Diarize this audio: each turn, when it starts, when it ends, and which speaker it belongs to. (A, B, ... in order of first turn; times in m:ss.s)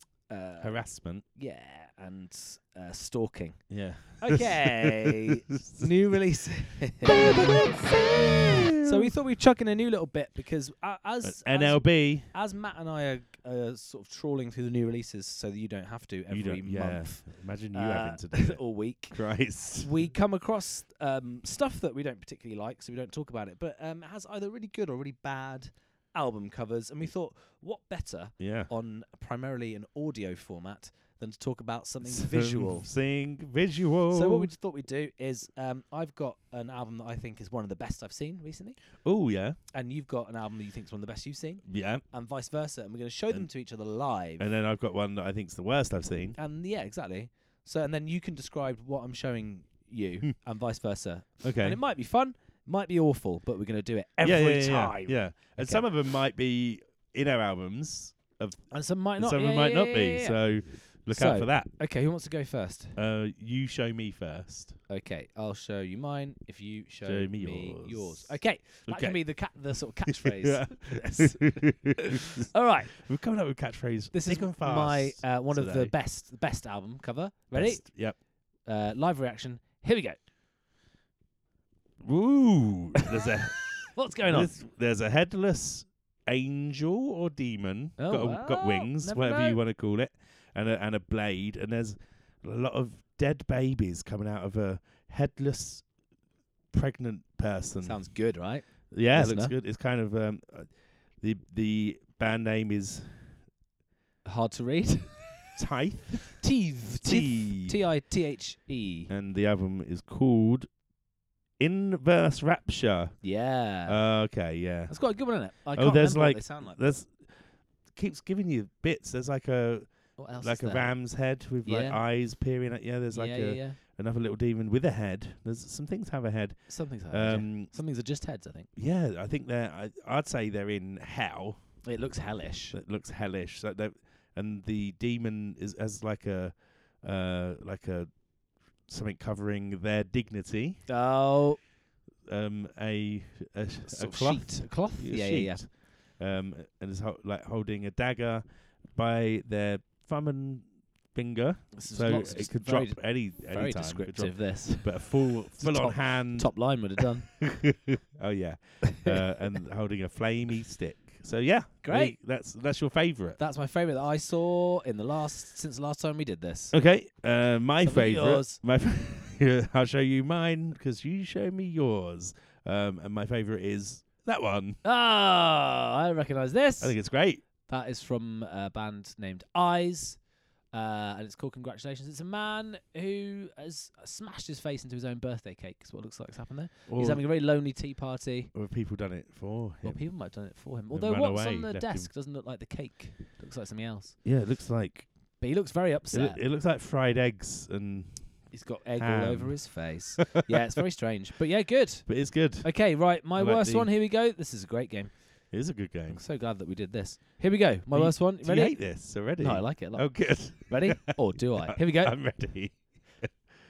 0:00.3-0:08.0 A
0:00.6-0:01.2 B
0:03.7-0:05.9 B
0:07.0-0:09.1 B
0:08.8-0:19.2 A
0:11.2-0:12.3 B
0:16.3-0:19.9 B
0:19.7-0:32.9 A
0:28.4-0:28.7 B
0:32.0-0:34.5 B
0:34.1-0:38.8 A
0:39.0-0:39.6 B
0:39.7-0:44.4 A
0:41.7-0:42.0 B
0:44.4-0:46.4 B
0:46.4-0:55.8 A
0:51.4-0:51.8 B
0:54.2-1:01.7 B
0:58.7-1:03.0 A
1:03.0-1:04.8 B
1:04.9-1:13.0 A
1:07.0-1:08.3 B
1:08.9-1:09.2 B
1:10.0-1:12.4 B
1:12.9-1:15.9 B
1:14.1-1:17.9 A
1:17.5-1:18.2 B
1:18.6-1:20.2 A
1:22.0-1:35.9 B
1:23.9-1:24.5 A
1:28.0-1:29.6 A
1:36.7-1:38.1 B
1:37.8-1:39.5 A
1:38.9-1:43.4 B
1:44.2-1:45.6 A
1:45.6-1:46.4 B
1:46.3-1:49.1 A
1:47.0-1:47.7 B
1:49.1-1:50.7 B
1:51.6-1:53.2 B
1:53.2-1:54.0 A
1:53.8-1:55.0 B
1:54.9-1:56.9 A
1:55.7-1:57.3 B
1:57.9-2:07.7 B
2:00.2-2:01.0 A
2:01.6-2:02.0 A
2:03.1-2:03.8 A
2:06.7-2:08.7 A
2:08.8-2:11.6 B
2:11.8-2:12.8 A
2:12.7-2:18.2 B
2:18.8-2:20.8 B
2:20.9-2:21.6 A
2:22.3-2:43.4 B
2:23.8-2:25.6 A
2:31.7-2:37.3 A
2:41.8-2:42.2 A
2:43.4-2:46.7 A
2:46.7-2:54.8 B
2:47.8-2:48.6 A
2:54.8-2:57.0 A
2:56.8-2:57.4 B
2:57.7-3:00.2 A
3:00.7-3:08.5 A
3:06.9-3:07.2 B
3:08.5-3:10.0 B
3:09.8-3:14.2 A
3:10.9-3:12.1 B
3:14.2-3:15.1 B
3:15.4-3:16.4 A
3:16.1-3:20.6 B
3:18.5-3:25.1 A
3:22.1-3:22.7 B
3:23.3-3:23.9 B
3:25.5-3:26.2 B
3:26.1-3:32.2 A
3:27.9-3:33.3 B